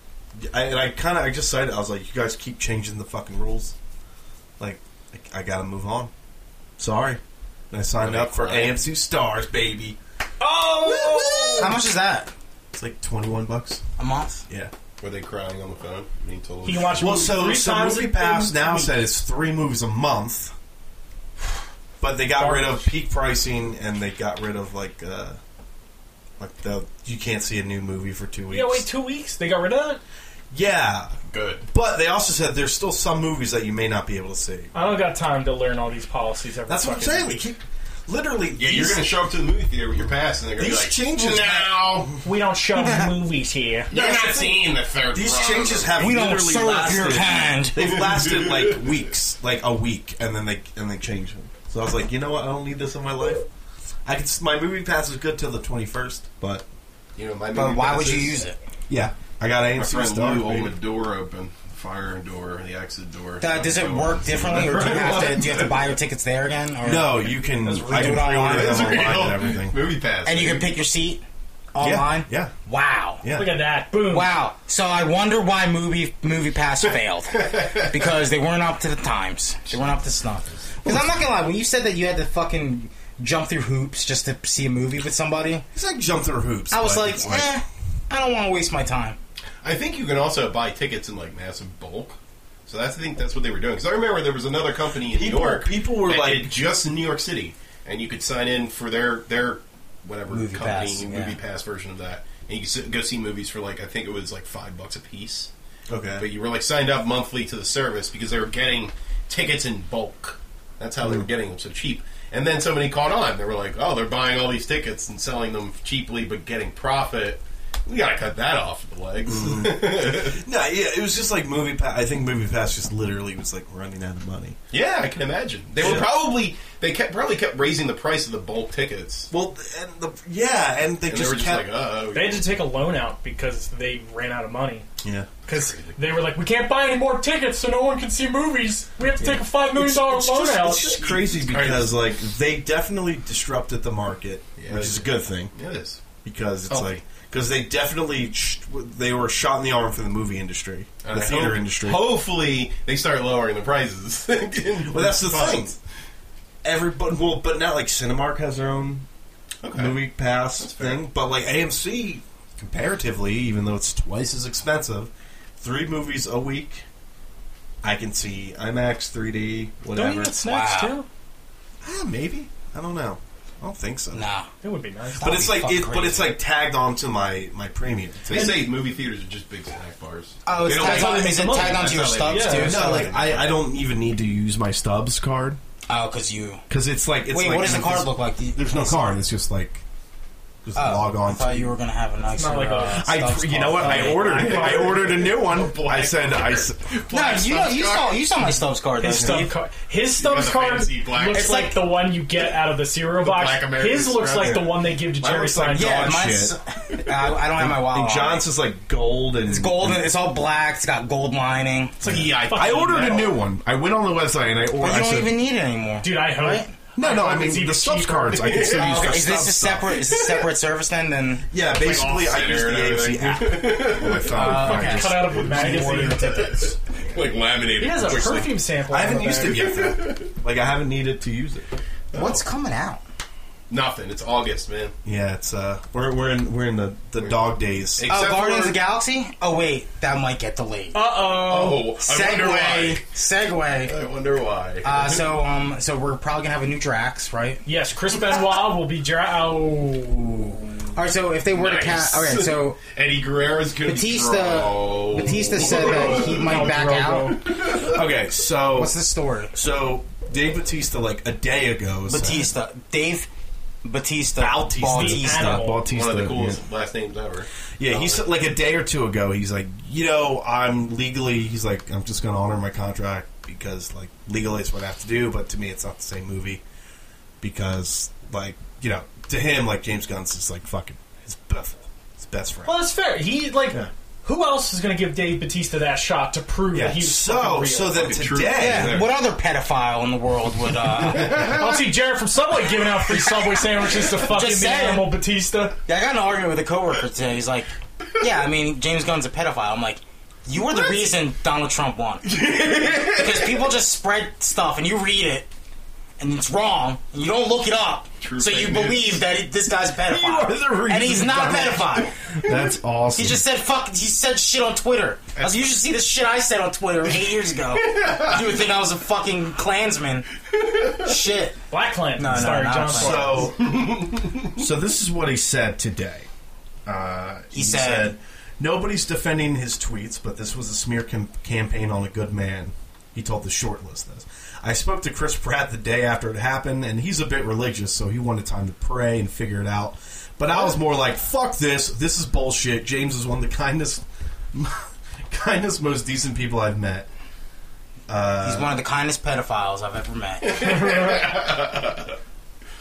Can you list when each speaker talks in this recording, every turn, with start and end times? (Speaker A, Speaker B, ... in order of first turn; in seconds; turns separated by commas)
Speaker A: 0.3-3.7, Speaker A: 4.6-6.1, Speaker A: 6.8-10.0, Speaker B: 8.0-8.8, Speaker C: 10.4-11.8, Speaker A: 10.7-11.8, Speaker D: 11.6-12.3, Speaker A: 12.7-13.8, Speaker D: 14.0-14.4, Speaker B: 15.0-17.2, Speaker C: 16.6-19.0, Speaker A: 17.0-20.5, Speaker A: 22.0-25.4, Speaker C: 22.3-22.9, Speaker A: 26.4-28.9, Speaker C: 28.5-30.0, Speaker A: 30.5-34.7, Speaker B: 31.3-31.6, Speaker C: 34.7-37.4, Speaker A: 36.7-39.1, Speaker B: 38.5-42.2, Speaker A: 40.6-42.2, Speaker C: 42.2-43.9, Speaker D: 42.8-43.1, Speaker B: 43.9-46.1, Speaker A: 43.9-53.4, Speaker D: 46.0-48.0, Speaker B: 47.8-48.9, Speaker A: 54.0-56.6, Speaker B: 57.1-58.4, Speaker D: 57.5-58.6, Speaker A: 58.9-60.7, Speaker B: 59.7-65.8, Speaker D: 63.4-69.0, Speaker A: 66.8-69.8, Speaker B: 67.9-70.7, Speaker D: 70.2-71.2, Speaker D: 71.7-73.2, Speaker A: 71.8-72.5, Speaker A: 73.2-73.6, Speaker C: 73.3-74.3, Speaker D: 73.9-85.6, Speaker B: 77.3-78.0, Speaker A: 80.8-81.2, Speaker A: 85.7-87.6, Speaker D: 86.7-89.2, Speaker B: 89.6-105.5, Speaker A: 95.0-96.6, Speaker D: 100.3-101.4, Speaker A: 105.9-106.2, Speaker B: 106.2-120.4, Speaker A: 111.0-111.3, Speaker A: 119.2-124.6, Speaker B: 124.7-129.3, Speaker A: 125.8-126.1, Speaker A: 129.3-131.7, Speaker B: 131.1-132.5, Speaker C: 132.1-134.9, Speaker A: 135.0-135.3, Speaker C: 135.5-141.1, Speaker B: 135.5-135.9, Speaker A: 139.2-145.5, Speaker B: 141.0-142.0, Speaker B: 144.6-146.0, Speaker A: 146.2-152.1, Speaker D: 146.7-147.0, Speaker B: 151.0-155.8, Speaker A: 154.8-155.7, Speaker A: 156.6-159.1, Speaker B: 159.6-160.0, Speaker A: 159.7-166.8, Speaker B: 160.6-161.1, Speaker A: 167.8-170.3, Speaker C: 169.9-171.1, Speaker D: 170.3-171.0, Speaker A: 171.8-174.2, Speaker D: 174.1-174.5, Speaker C: 174.6-175.5, Speaker A: 175.2-178.7, Speaker D: 175.2-176.3, Speaker B: 178.3-183.6, Speaker D: 180.4-183.2, Speaker C: 180.7-182.8, Speaker A: 182.6-185.6, Speaker D: 185.9-186.6, Speaker A: 186.7-189.8, Speaker D: 187.3-189.2, Speaker A: 190.6-191.7, Speaker D: 190.7-194.6, Speaker C: 192.3-193.1, Speaker A: 192.9-196.9, Speaker C: 193.8-195.1, Speaker B: 194.4-198.2, Speaker D: 197.1-199.5, Speaker C: 199.0-206.1, Speaker A: 199.1-199.5, Speaker B: 200.1-201.7, Speaker D: 201.3-201.8, Speaker B: 203.2-204.7, Speaker A: 204.4-206.6, Speaker B: 205.2-205.7, Speaker D: 205.7-208.5, Speaker A: 207.5-210.1, Speaker D: 209.4-212.2, Speaker B: 212.0-213.4, Speaker A: 212.0-215.3, Speaker C: 212.0-213.0, Speaker D: 214.8-216.7, Speaker C: 216.0-218.7, Speaker A: 216.9-219.9, Speaker B: 218.4-219.2, Speaker D: 218.7-221.4, Speaker B: 220.0-220.5, Speaker A: 221.5-227.2, Speaker B: 221.7-224.9, Speaker D: 224.3-226.7, Speaker C: 224.4-226.5, Speaker B: 225.6-228.6, Speaker C: 227.8-229.7, Speaker A: 228.1-231.7, Speaker B: 229.3-230.3, Speaker B: 232.1-232.4, Speaker D: 232.1-233.0, Speaker B: 233.7-234.9, Speaker A: 235.0-238.1, Speaker B: 237.9-238.8, Speaker D: 238.1-241.1, Speaker C: 240.9-241.9, Speaker B: 241.2-243.0, Speaker D: 241.9-243.9, Speaker B: 243.8-245.2, Speaker D: 244.8-247.6, Speaker C: 247.6-250.6, Speaker D: 250.9-252.8, Speaker B: 251.5-256.8, Speaker D: 253.8-257.4, Speaker C: 255.6-257.5, Speaker B: 257.4-258.0, Speaker A: 257.7-258.9, Speaker D: 258.7-259.5, Speaker A: 259.5-262.5, Speaker D: 262.1-263.3, Speaker D: 263.8-265.7, Speaker A: 264.4-266.6, Speaker C: 264.8-265.8, Speaker B: 265.9-268.2, Speaker A: 267.8-276.6, Speaker A: 277.4-282.8, Speaker C: 282.6-288.1, Speaker A: 286.7-289.1, Speaker B: 287.9-289.1, Speaker D: 288.5-291.6, Speaker B: 291.2-291.6, Speaker C: 291.4-295.7, Speaker D: 293.1-295.1, Speaker D: 295.9-305.5, Speaker B: 302.2-303.7, Speaker D: 306.2-312.1, Speaker B: 308.2-309.2, Speaker A: 310.1-313.4, Speaker D: 313.1-320.3, Speaker B: 315.4-315.7, Speaker B: 317.7-318.7, Speaker B: 320.7-321.1, Speaker D: 320.9-321.6, Speaker C: 321.7-323.5, Speaker D: 322.2-323.5, Speaker A: 322.9-323.9, Speaker B: 323.5-324.6, Speaker A: 324.6-326.3, Speaker A: 326.9-347.1, Speaker D: 327.5-328.1, Speaker A: 348.1-348.8, Speaker D: 348.4-350.9, Speaker B: 350.4-352.2